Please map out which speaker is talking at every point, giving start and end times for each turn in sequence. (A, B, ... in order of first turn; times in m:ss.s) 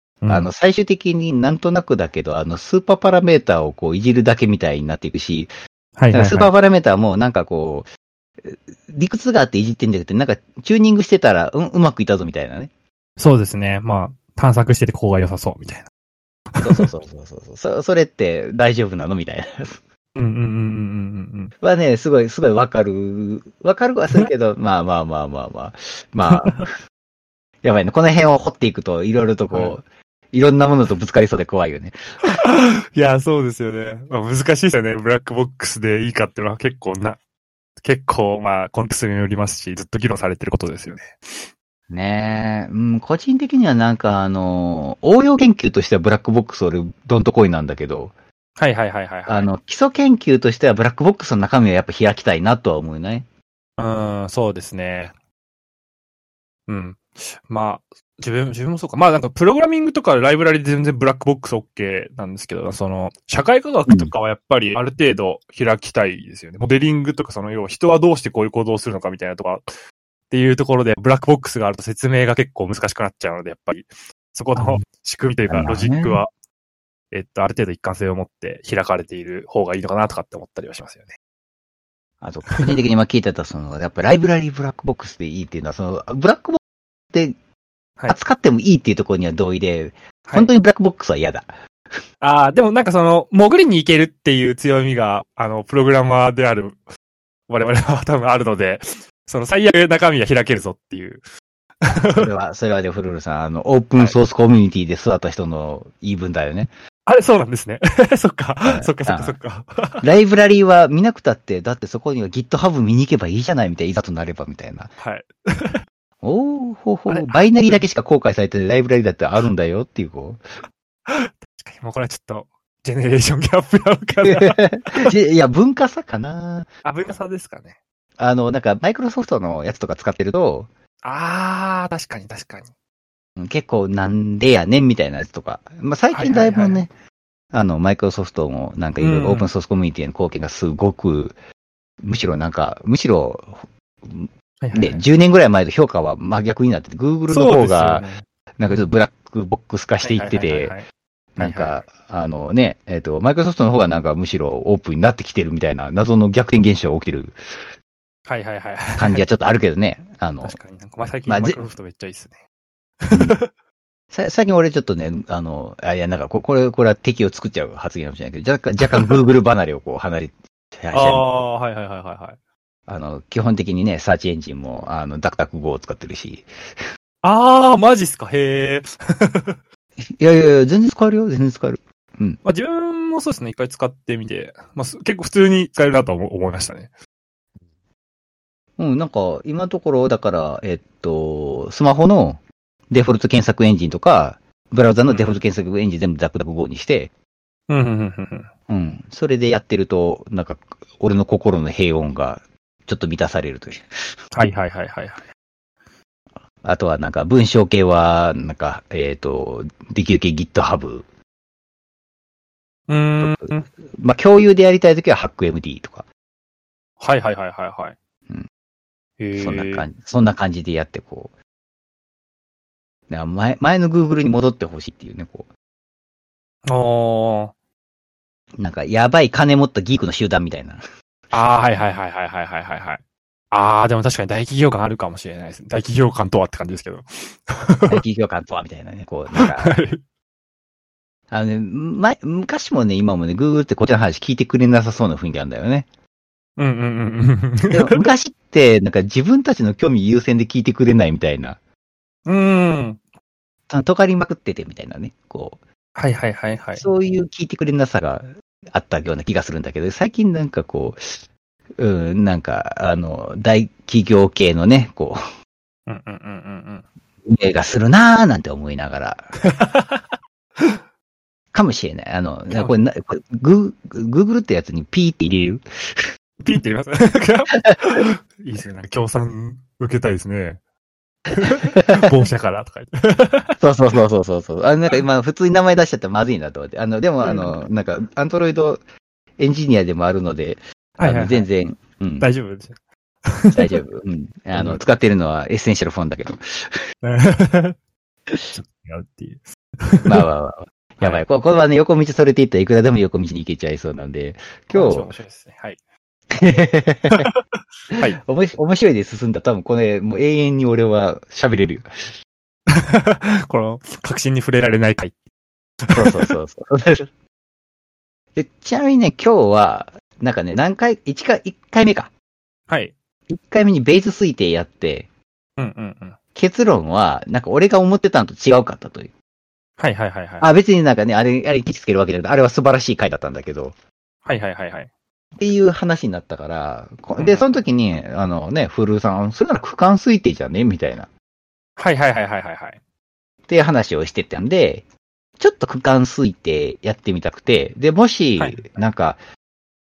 0:00.2-0:00.5 A
0:00.3-0:05.5 B
0:06.0-0:06.5 A
0:06.1-0:07.9 B
0:08.4-0:12.7 B
0:13.2-0:15.9 A
0:16.5-0:16.9 A
0:16.6-0:19.8 B
0:20.1-0:21.5 A
0:21.6-0:26.8 B
0:27.6-0:32.4 B
0:29.5-0:29.8 A
0:32.3-0:37.2 A
0:37.8-0:41.5 A
0:41.9-0:48.1 B
0:48.6-0:49.5 A
0:49.3-0:53.2 B
0:53.8-0:55.1 A
0:56.7-1:09.7 A
1:10.3-1:16.3 A
1:14.6-1:14.8 B
1:15.5-1:16.2 B
1:17.1-1:21.1 A
1:22.2-1:26.6 B
1:28.1-1:31.5 B
1:30.2-1:30.5 A
1:32.2-1:36.8 A
1:37.5-1:41.2 A
1:41.8-1:42.3 A
1:42.0-1:46.7 B
1:47.1-1:50.0 A
1:48.6-1:49.4 B
1:50.0-1:54.9 B
1:55.0-1:55.8 A
1:56.2-2:00.4 B
1:57.1-1:57.8 A
2:01.1-2:05.1 A
2:04.2-2:06.7 B
2:06.8-2:07.8 A
2:08.2-2:10.7 B
2:11.0-2:12.7 A
2:13.4-2:16.9 B
2:16.1-2:16.8 A
2:17.5-2:21.4 B
2:19.0-2:19.5 A
2:22.0-2:30.7 B
2:24.6-2:25.0 A
2:27.3-2:28.9 A
2:30.0-2:30.8 A
2:31.4-2:37.4 B
2:31.4-2:31.7 A
2:38.2-2:39.2 A
2:39.0-2:40.6 B
2:40.4-2:42.4 A
2:41.3-2:41.6 B
2:43.0-2:43.5 A
2:43.1-2:43.4 B
2:44.1-2:51.2 B
2:48.8-2:49.1 A
2:50.9-2:52.4 A
2:52.9-2:56.5 B
2:57.2-2:59.6 A
3:00.0-3:02.4 B
3:02.4-3:06.9 A
3:08.8-3:17.1 B
3:15.1-3:15.4 A
3:17.7-3:18.5 A
3:18.7-3:24.1 B
3:24.3-3:25.2 A
3:26.6-3:31.0 B
3:32.9-3:33.7 A
3:33.2-3:36.0 B
3:37.0-3:37.9 A
3:39.2-3:39.8 A
3:39.4-3:41.3 B
3:43.1-3:45.4 B
3:46.7-3:47.5 A
3:48.6-3:50.8 B
3:51.3-3:58.0 A
3:57.9-3:59.8 B
3:59.3-4:00.0 A
4:01.3-4:05.9 B
4:06.6-4:08.0 A
4:07.7-4:11.6 B
4:12.2-4:13.0 A
4:13.7-4:15.6 B
4:16.0-4:16.9 A
4:16.8-4:21.2 B
4:21.8-4:25.2 B
4:25.9-4:26.8 A
4:27.2-4:29.3 B
4:29.4-4:30.8 A
4:31.5-4:36.1 B
4:36.4-4:40.6 A
4:41.3-4:43.6 A
4:41.4-4:42.1 B
4:43.6-4:48.8 B
4:47.2-4:47.6 A
4:49.4-4:52.3 B
4:51.0-4:51.5 A
4:52.2-4:52.7 A
4:53.3-4:53.8 A
4:53.5-4:56.8 B
4:54.5-4:54.8 A
4:57.0-4:57.8 A
4:58.4-5:00.2 A
5:00.0-5:05.1 B
5:04.7-5:05.8 A
5:06.3-5:07.3 B
5:07.1-5:08.2 A
5:07.9-5:11.9 B
5:12.7-5:15.1 A
5:15.8-5:16.3 A
5:15.9-5:17.1 B
5:18.4-5:22.1 B
5:23.3-5:25.1 B
5:25.6-5:26.2 A
5:26.3-5:29.1 B
5:29.8-5:30.4 A
5:30.4-5:33.7 B
5:34.2-5:34.9 A
5:35.4-5:41.1 B
5:37.2-5:37.4 A
5:41.8-5:42.8 A
5:43.5-5:44.8 B
5:45.4-5:49.2 B
5:48.4-5:48.6 A